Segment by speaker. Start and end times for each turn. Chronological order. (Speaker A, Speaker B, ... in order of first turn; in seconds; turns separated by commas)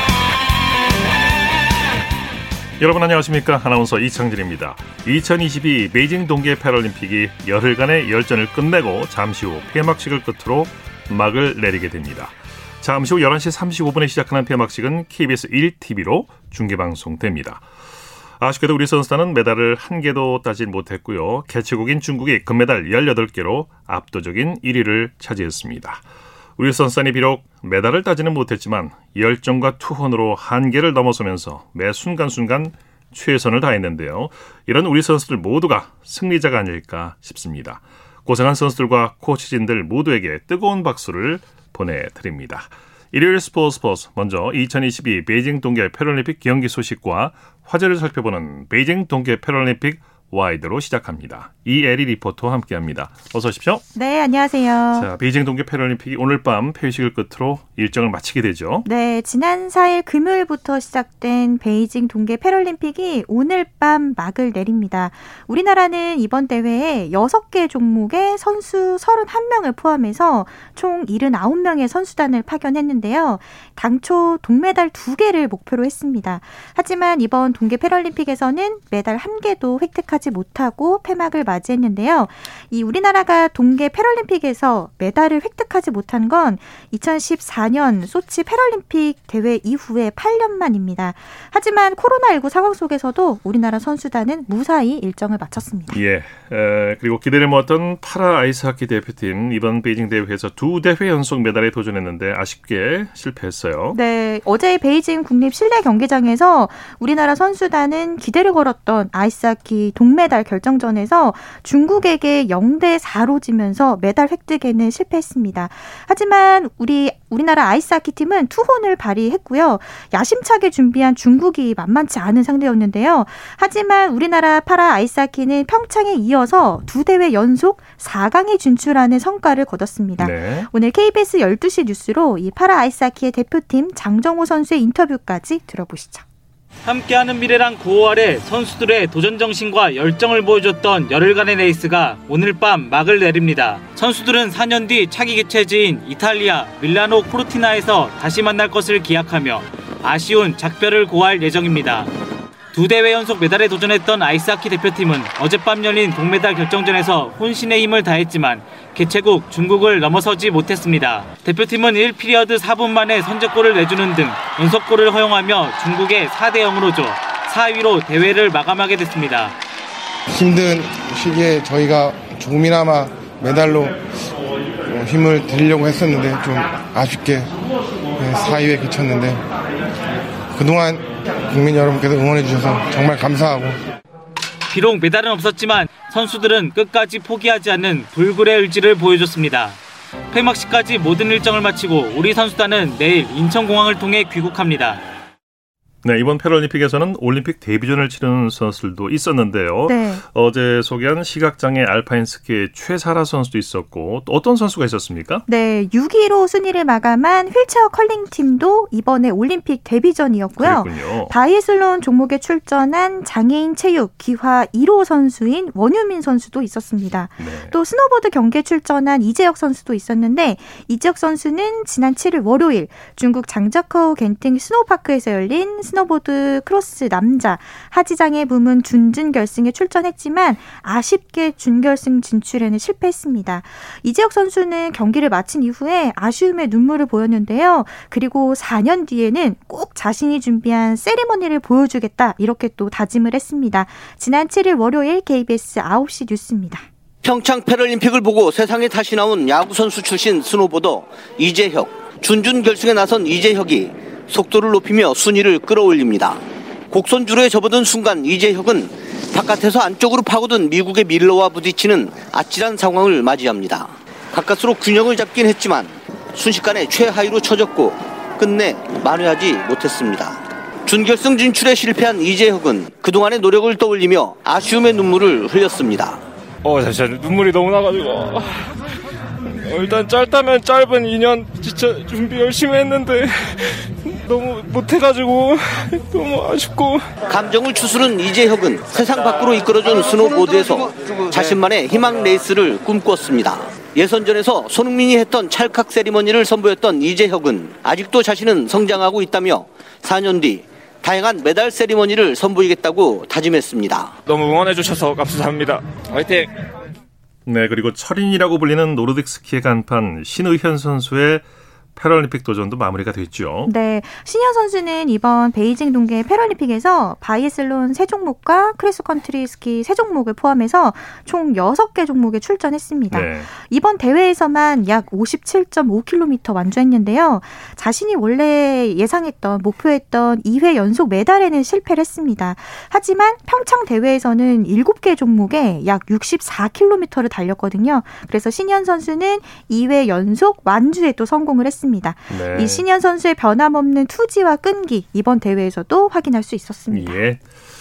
Speaker A: 2.8-17.6, Speaker A: 18.4-26.0, Speaker A: 26.6-53.8, Speaker B: 53.9-55.1, Speaker A: 54.9-58.9, Speaker B: 58.8-96.0, Speaker A: 95.9-104.0, Speaker B: 103.9-136.2, Speaker A: 130.2-130.7, Speaker C: 136.8-152.1, Speaker C: 152.7-169.5, Speaker D: 170.3-174.0, Speaker D: 174.8-177.5, Speaker D: 178.2-179.4, Speaker D: 180.5-183.8, Speaker C: 184.7-189.8, Speaker C: 190.3-195.0, Speaker A: 196.0-205.4, Speaker B: 199.9-200.2, Speaker B: 205.5-246.8, Speaker A: 210.6-211.3, Speaker A: 217.4-217.7, Speaker E: 247.2-256.4, Speaker E: 256.9-276.2, Speaker F: 276.6-278.7, Speaker F: 279.4-287.1, Speaker E: 287.3-304.1, Speaker F: 304.2-306.5, Speaker A: 307.4-311.4, Speaker A: 311.9-313.7, Speaker B: 313.6-347.2, Speaker A: 323.1-323.5, Speaker A: 342.3-342.8, Speaker A: 346.9-347.5